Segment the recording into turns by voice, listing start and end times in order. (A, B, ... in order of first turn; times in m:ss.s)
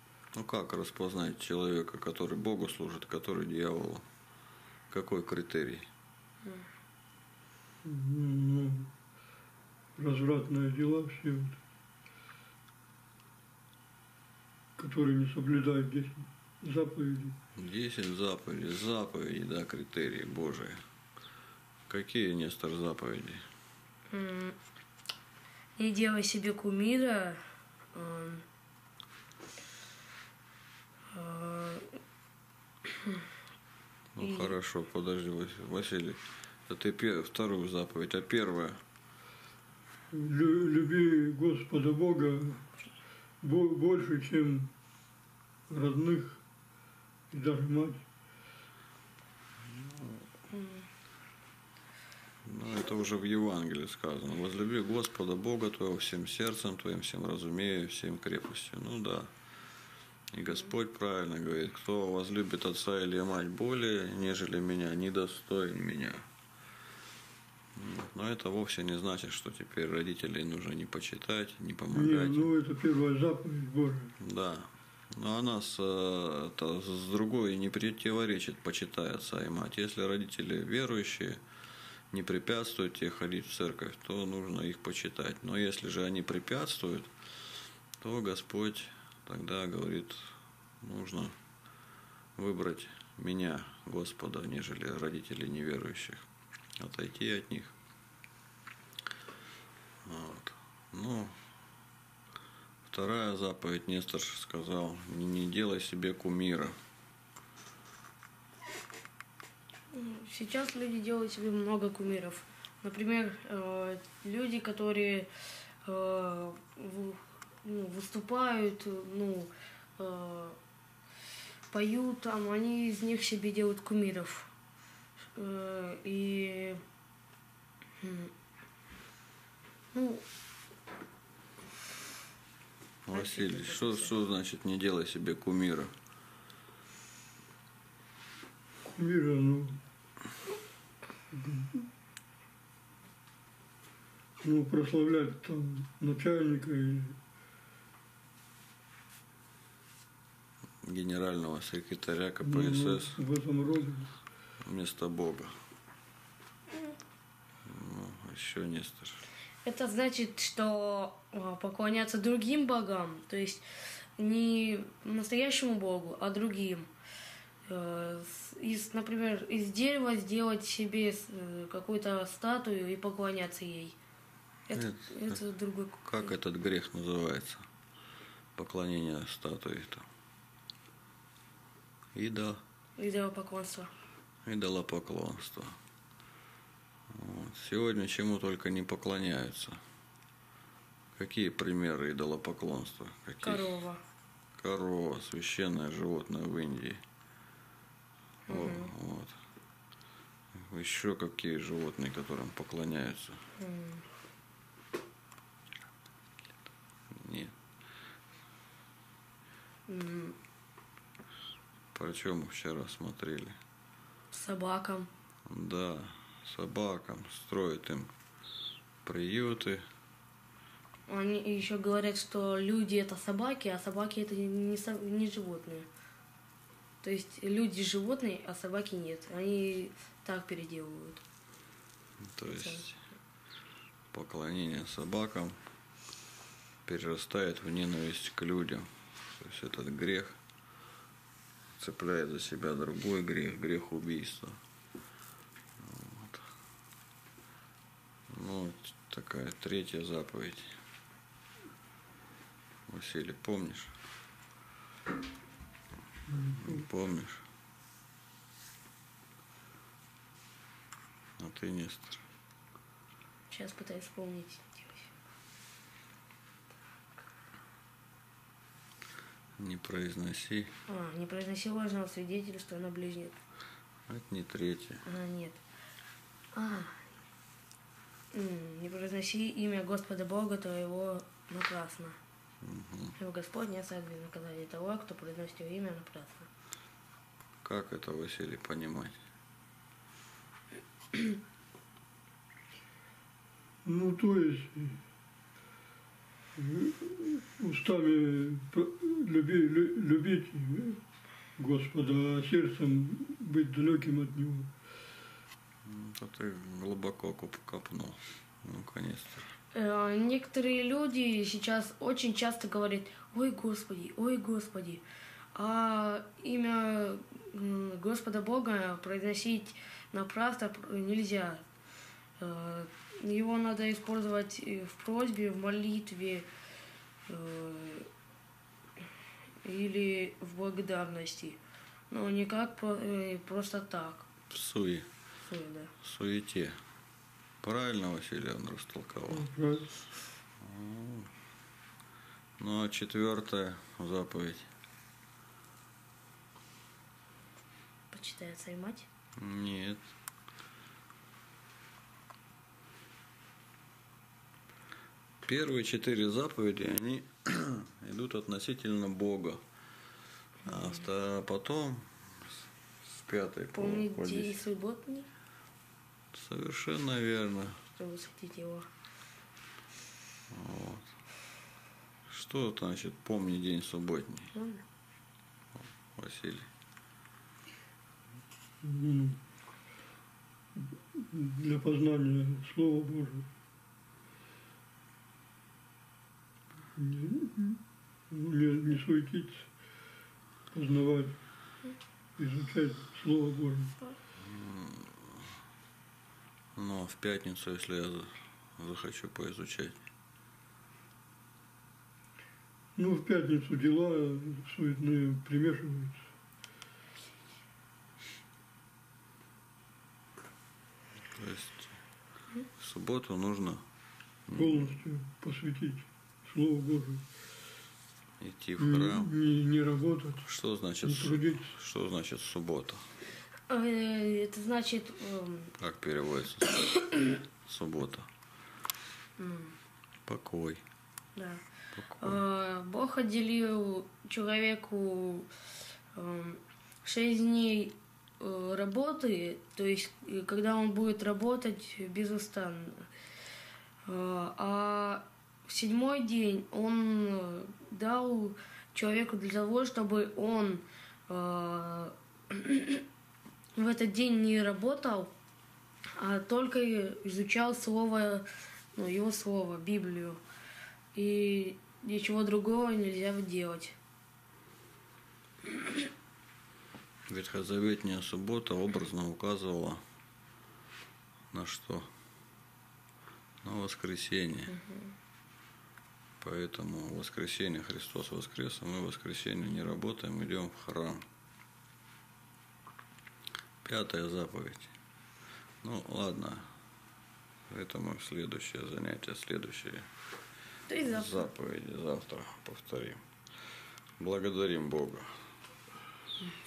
0:00.3-0:04.0 A
0:04.9-0:05.9 A
0:07.8-0:08.9 B
0:10.0-0:11.6 B
0:14.8-0:17.4 B
0:17.6-0:20.8 A
0:21.9-0:23.4 A
0:24.1-0:24.6 C
0:25.8-0:27.4 C
0:27.9-0:28.4 C
0:31.1-0:32.0 C
0:32.9-0:33.2 C
0:34.1-0:38.8 A
0:34.2-0:34.5 C
0:40.1-0:42.6 B
0:43.4-0:44.7 B
0:45.7-0:46.4 B
0:47.3-0:48.0 B
0:49.7-0:50.2 A
0:52.4-0:59.3 A
1:00.3-1:06.2 A
1:07.7-1:12.5 A
1:11.9-1:14.1 B
1:14.2-1:21.4 A
1:22.1-1:27.1 A
1:28.0-1:31.3 A
1:32.4-1:36.2 A
1:36.8-1:37.7 A
1:40.0-1:41.3 A
1:42.8-1:46.8 A
1:49.9-1:55.3 C
1:55.8-2:00.6 C
2:01.7-2:04.5 C
2:05.4-2:06.8 C
2:08.0-2:08.3 C
2:09.9-2:10.2 C
2:13.0-2:15.9 A
2:13.1-2:14.1 C
2:18.8-2:19.8 B
2:21.3-2:21.9 B
2:24.4-2:27.2 B
2:30.8-2:33.2 A
2:32.4-2:34.1 B
2:34.6-2:35.5 A
2:37.6-2:39.2 A
2:39.6-2:43.6 C
2:44.2-2:46.9 C
2:47.6-2:54.0 C
2:54.7-2:56.3 C
2:54.7-2:55.4 A
2:56.0-2:57.6 A
2:58.6-3:00.1 A
3:02.1-3:02.6 A
3:03.0-3:03.9 C
3:04.4-3:05.7 A
3:07.1-3:09.8 A
3:11.2-3:13.8 A
3:13.4-3:14.0 C
3:14.6-3:17.0 A
3:18.5-3:18.9 C
3:18.5-3:19.4 A
3:20.5-3:23.4 A
3:23.6-3:24.0 C
3:27.1-3:27.5 A
3:29.9-3:30.4 C
3:31.9-3:33.6 A
3:34.3-3:35.1 C
3:35.5-3:38.1 A
3:39.0-3:39.8 A
3:41.1-3:45.9 C
3:47.0-3:51.2 C
3:52.2-3:53.0 A
3:52.5-3:52.8 C
3:54.1-3:55.6 A
3:56.8-4:00.4 A
4:01.8-4:04.6 A
4:05.8-4:06.4 A
4:08.3-4:10.8 A
4:12.9-4:13.9 A
4:16.3-4:16.8 B
4:16.5-4:17.4 A
4:21.4-4:22.2 A
4:23.5-4:25.1 C
4:29.6-4:30.7 A
4:30.9-4:33.4 C
4:34.1-4:35.0 A
4:35.0-4:35.6 C
4:36.5-4:37.0 C
4:38.3-4:42.2 C
4:42.6-4:43.2 A
4:43.2-4:46.5 C
4:47.6-4:49.2 A
4:53.8-4:55.0 B
4:56.5-5:01.0 B
5:01.6-5:04.7 B
5:05.8-5:09.5 A
5:09.7-5:15.0 C
5:15.5-5:21.6 C
5:22.4-5:26.5 C
5:27.3-5:28.1 C
5:29.6-5:31.6 C
5:32.1-5:34.3 C
5:34.5-5:35.1 A
5:35.4-5:35.9 C
5:36.0-5:36.8 A
5:37.6-5:39.5 A
5:39.3-5:39.9 B
5:40.6-5:41.3 A
5:42.6-5:44.7 A
5:48.1-5:49.1 C
5:49.4-5:50.0 A
5:55.4-5:59.6 A
6:00.6-6:02.5 A
6:03.0-6:04.6 A
6:03.7-6:05.3 C
6:06.3-6:07.8 A
6:07.9-6:08.9 C
6:10.5-6:11.1 A
6:12.3-6:14.5 A
6:14.5-6:14.8 C
6:16.1-6:16.7 A
6:18.8-6:19.4 B
6:20.8-6:23.5 B
6:26.9-6:29.6 B
6:30.7-6:31.4 B
6:32.4-6:34.0 B
6:34.4-6:35.4 A
6:36.8-6:40.0 A
6:43.0-6:46.2 B
6:51.2-6:52.0 A
6:52.8-6:53.8 A
6:54.5-6:54.9 A
6:54.5-6:57.2 B
6:58.4-6:59.3 A
6:58.8-7:00.4 B
7:00.4-7:03.1 A
7:01.0-7:01.7 B
7:03.7-7:05.7 C
7:05.8-7:07.1 A
7:07.6-7:08.3 A
7:09.4-7:09.7 C
7:10.3-7:10.8 A
7:11.4-7:11.6 C
7:12.0-7:12.4 A
7:12.2-7:15.5 C
7:16.1-7:23.1 C
7:24.0-7:33.0 C
7:33.8-7:35.3 C
7:36.2-7:40.4 C
7:41.1-7:44.0 C
7:47.3-7:50.0 A
7:51.5-7:52.1 A
7:53.6-7:54.8 A
7:54.7-7:55.1 C
7:56.4-8:01.2 A
8:03.8-8:04.9 A
8:05.8-8:06.7 A
8:07.7-8:10.1 A
8:10.9-8:11.5 C
8:11.0-8:13.2 A
8:14.2-8:15.3 A